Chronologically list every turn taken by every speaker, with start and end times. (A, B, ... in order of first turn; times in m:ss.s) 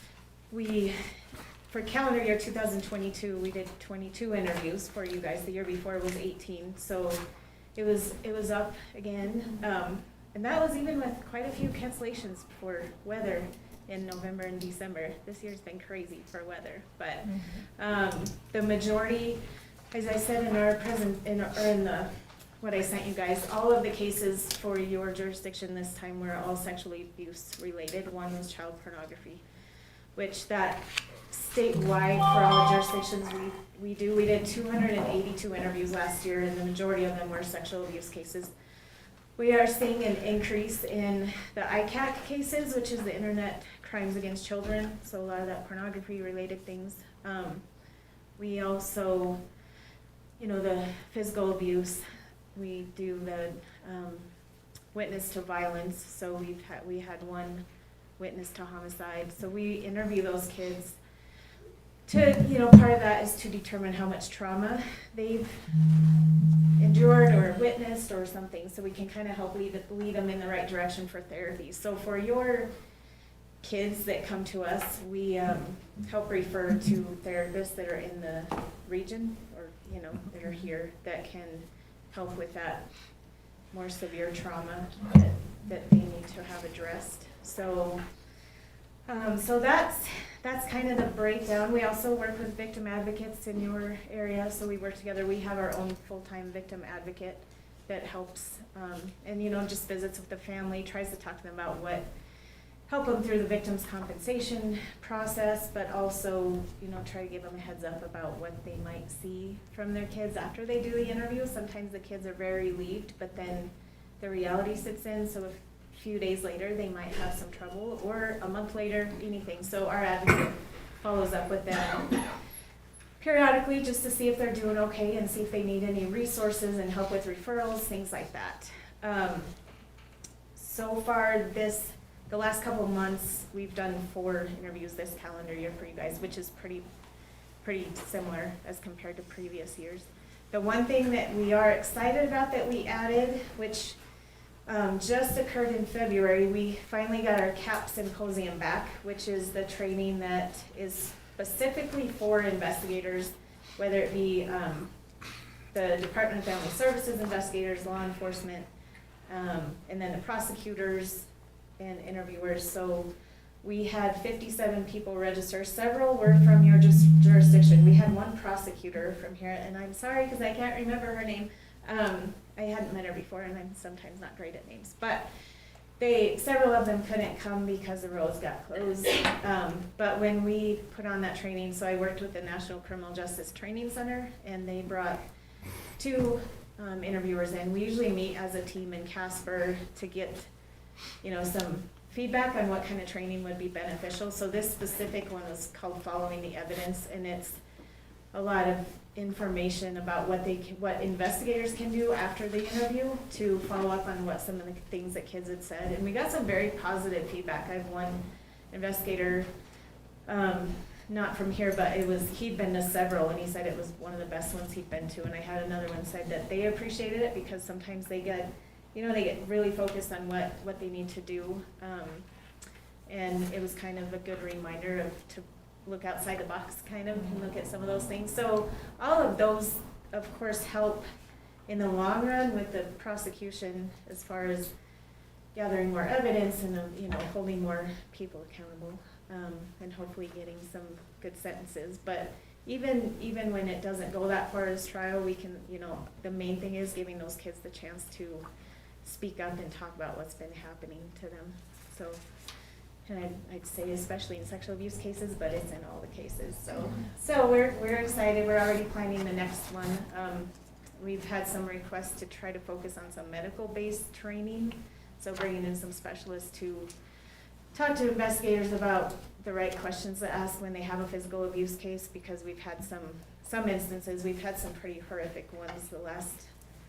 0:00.5-0:01.0 A
0:01.7-0:07.2 A
0:07.8-0:29.4 A
0:30.2-0:38.5 A
0:39.4-0:47.6 A
0:48.4-0:49.4 A
0:50.4-0:52.0 A
0:52.5-0:54.3 A
0:54.9-0:57.6 A
0:58.2-1:01.0 A
1:02.1-1:05.7 A
1:06.8-1:12.7 A
1:13.6-1:22.9 A
1:23.7-1:28.0 A
1:29.1-1:42.1 A
1:42.9-2:02.2 A
2:03.2-2:09.5 A
2:10.6-2:16.8 A
2:17.6-2:24.0 A
2:24.7-2:34.9 A
2:35.7-2:38.7 A
2:39.3-2:43.1 A
2:43.6-2:55.3 A
2:56.0-3:05.2 A
3:06.0-3:10.5 A
3:11.2-3:17.6 A
3:18.3-3:29.5 A
3:30.3-3:42.3 A
3:43.1-3:51.0 A
3:51.7-3:54.7 A
3:55.5-4:08.4 A
4:09.0-4:12.2 A
4:13.1-4:26.9 A
4:27.7-4:36.5 A